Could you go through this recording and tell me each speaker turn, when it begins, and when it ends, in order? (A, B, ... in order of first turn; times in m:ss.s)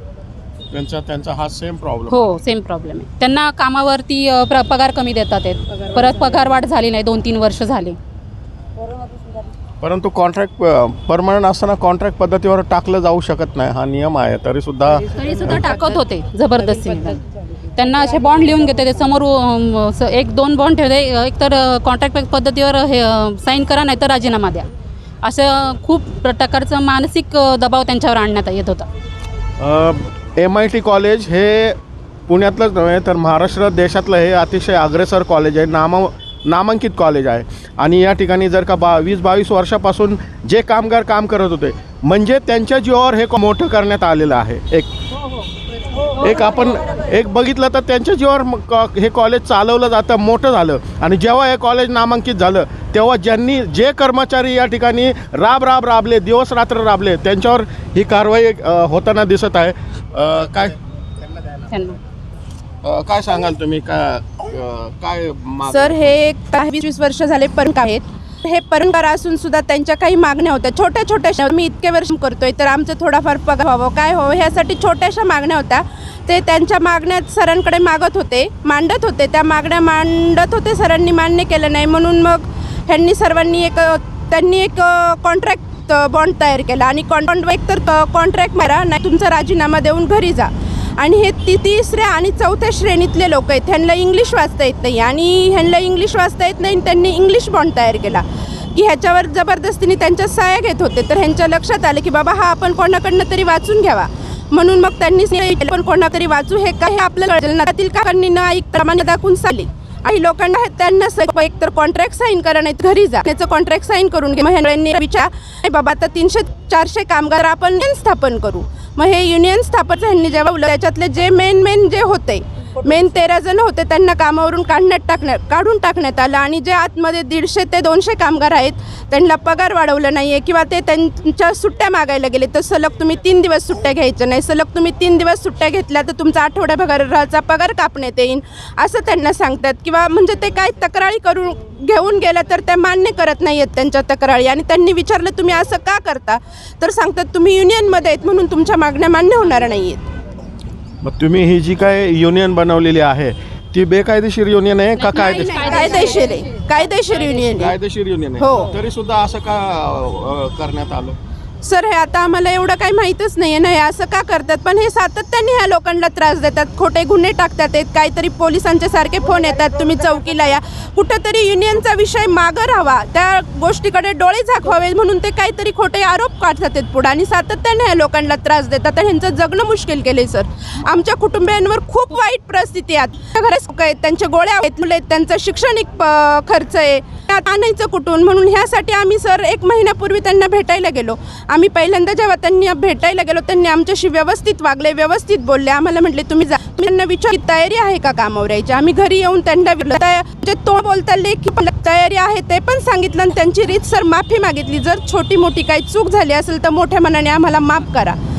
0:00.7-0:02.3 A
0:02.1-0:08.0 B
0:09.8-0:15.6 A
0:15.1-0:17.2 B
0:17.7-0:24.7 B
0:25.2-0:28.9 B
0:29.6-0:31.8 A
0:32.3-0:44.9 A
0:46.2-1:00.8 A
1:01.7-1:02.0 B
1:02.8-1:06.2 A
1:05.7-1:38.2 C
1:38.7-2:30.1 C
2:31.0-2:35.8 A
2:35.0-2:36.4 B
2:35.1-2:37.7 C
2:37.2-2:41.2 A
2:38.4-2:38.8 C
2:41.6-3:28.2 C